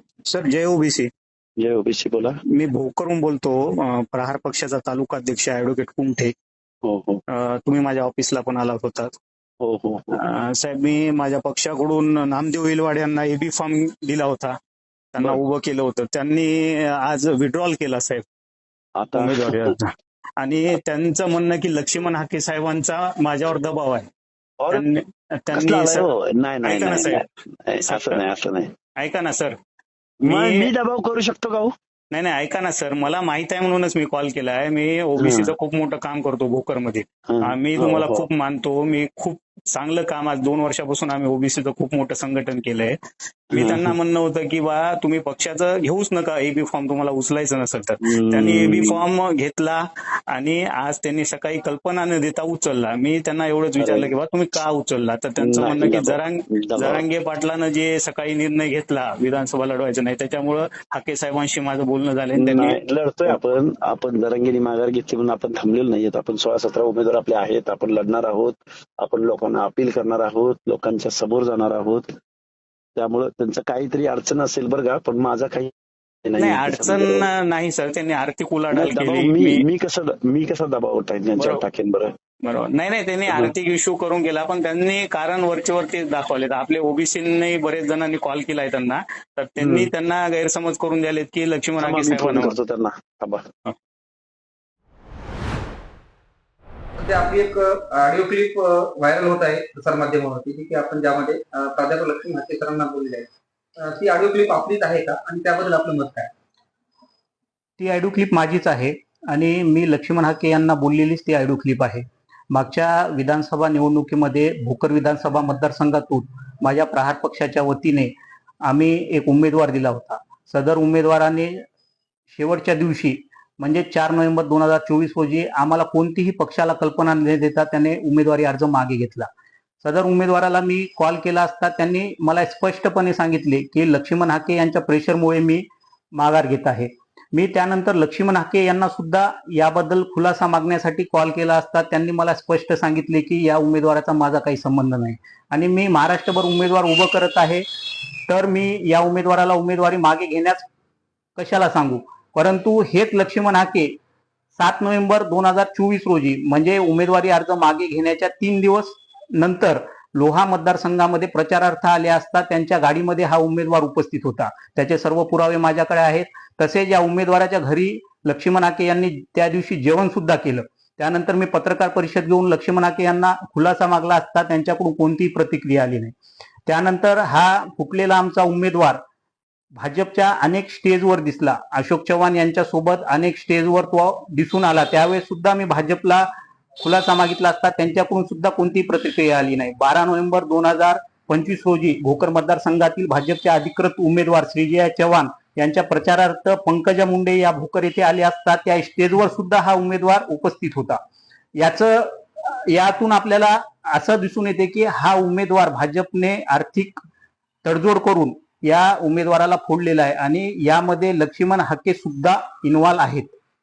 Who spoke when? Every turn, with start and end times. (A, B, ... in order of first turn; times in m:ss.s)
0:00.3-0:01.1 A
0:01.6-0:02.4 B
0:02.5-0:06.3 A
0:06.8-0:07.2 B
0:07.3-0:09.1 A
0:09.6-0:10.2 B
0:10.1-0:14.6 A
0:15.1-0:18.2 A
0:19.0-0:19.7 B
0:19.1-0:24.1 A
0:24.6-0:24.8 B
0:24.7-0:26.1 A
0:25.5-0:28.7 B
0:26.6-0:27.2 A
0:27.8-0:28.2 A
0:29.0-0:29.6 A
0:30.2-0:31.7 B
0:30.2-0:30.7 A
0:32.1-0:43.0 A
0:35.2-0:35.6 B
0:37.3-0:38.3 B
0:43.5-1:03.4 A
0:43.6-0:43.9 B
0:48.0-0:49.0 B
0:53.8-0:54.1 B
0:55.4-0:57.0 B
1:02.3-1:12.1 B
1:13.0-1:15.7 B
1:16.2-1:17.3 B
1:16.4-1:19.6 A
1:18.7-1:22.1 B
1:22.4-1:32.6 A
1:29.6-1:29.9 B
1:31.8-1:33.5 B
1:37.0-1:43.3 C
1:43.8-1:46.3 C
1:47.8-1:58.1 D
1:58.7-2:01.6 D
2:02.3-2:09.3 D
2:09.8-2:15.6 D
2:16.2-2:27.6 D
2:28.3-2:30.7 D
2:31.4-2:33.9 D
2:34.6-2:56.2 D
2:56.7-2:59.0 D
2:59.8-3:06.3 D
3:06.8-3:21.0 D
3:21.6-3:27.0 D
3:27.6-3:33.3 D